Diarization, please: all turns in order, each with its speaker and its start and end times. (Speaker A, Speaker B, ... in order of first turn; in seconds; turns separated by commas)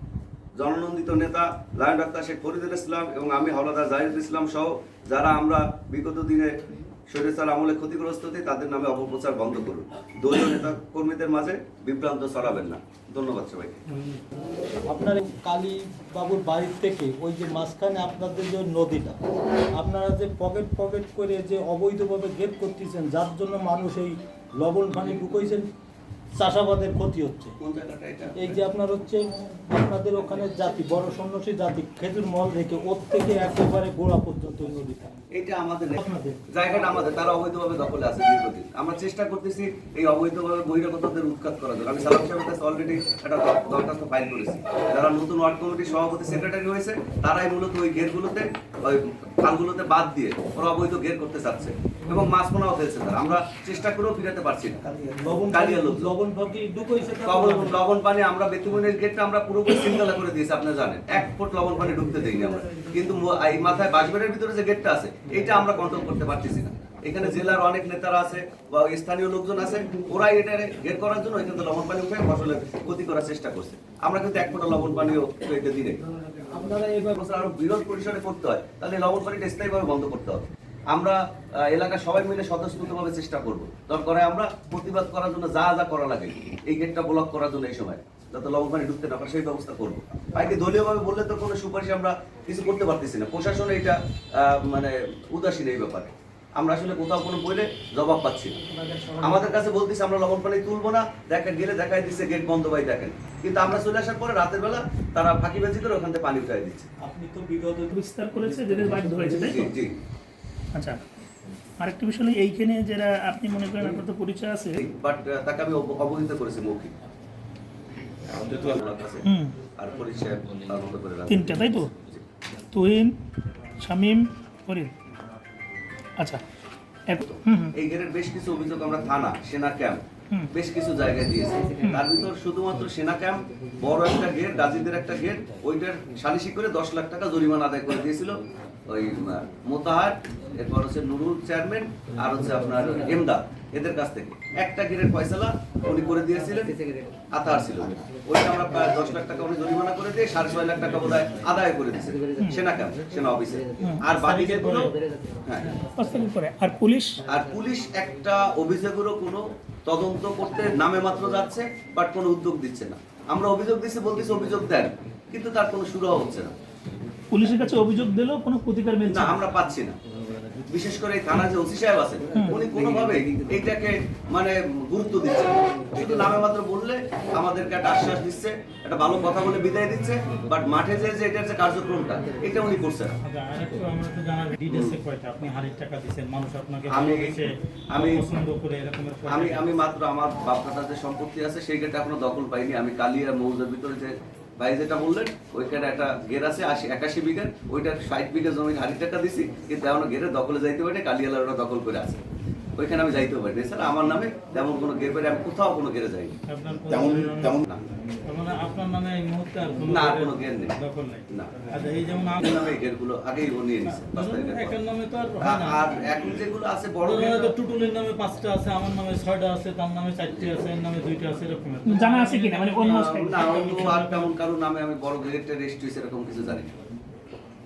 Speaker A: 0.6-6.6, Speaker A: 7.1-13.8, Speaker B: 13.9-14.2, Speaker C: 14.9-19.2, Speaker C: 19.8-25.7, Speaker C: 26.3-27.6, Speaker A: 27.6-28.6, Speaker C: 28.4-35.0, Speaker A: 35.3-54.8, Speaker C: 36.0-36.4, Speaker C: 54.9-57.8, Speaker A: 55.5-56.1, Speaker A: 57.2-76.0, Speaker C: 76.5-77.2, Speaker A: 77.2-98.6, Speaker C: 98.7-99.6, Speaker A: 99.2-106.9, Speaker C: 107.0-109.5, Speaker D: 107.9-109.7, Speaker A: 109.3-110.0, Speaker D: 110.8-111.0, Speaker D: 111.8-114.8, Speaker A: 114.8-116.9, Speaker A: 118.3-122.2, Speaker D: 119.2-119.5, Speaker D: 121.3-121.9, Speaker D: 122.7-123.2, Speaker D: 123.8-124.9, Speaker D: 127.1-127.7, Speaker A: 127.2-146.8, Speaker A: 147.3-155.8, Speaker D: 152.4-152.7, Speaker B: 154.0-154.9, Speaker D: 156.0-157.2, Speaker A: 157.2-166.6, Speaker D: 167.3-169.5, Speaker A: 169.1-170.0, Speaker A: 170.6-183.2, Speaker B: 183.2-189.8, Speaker A: 184.7-185.0, Speaker A: 186.9-188.2, Speaker A: 189.3-202.2, Speaker A: 202.8-206.4, Speaker B: 206.5-207.7, Speaker B: 208.2-212.6, Speaker A: 209.9-210.8, Speaker A: 211.3-211.6, Speaker A: 212.4-214.8, Speaker B: 213.9-215.8, Speaker A: 215.4-217.5, Speaker B: 217.0-224.3, Speaker D: 221.8-223.5, Speaker A: 222.8-226.8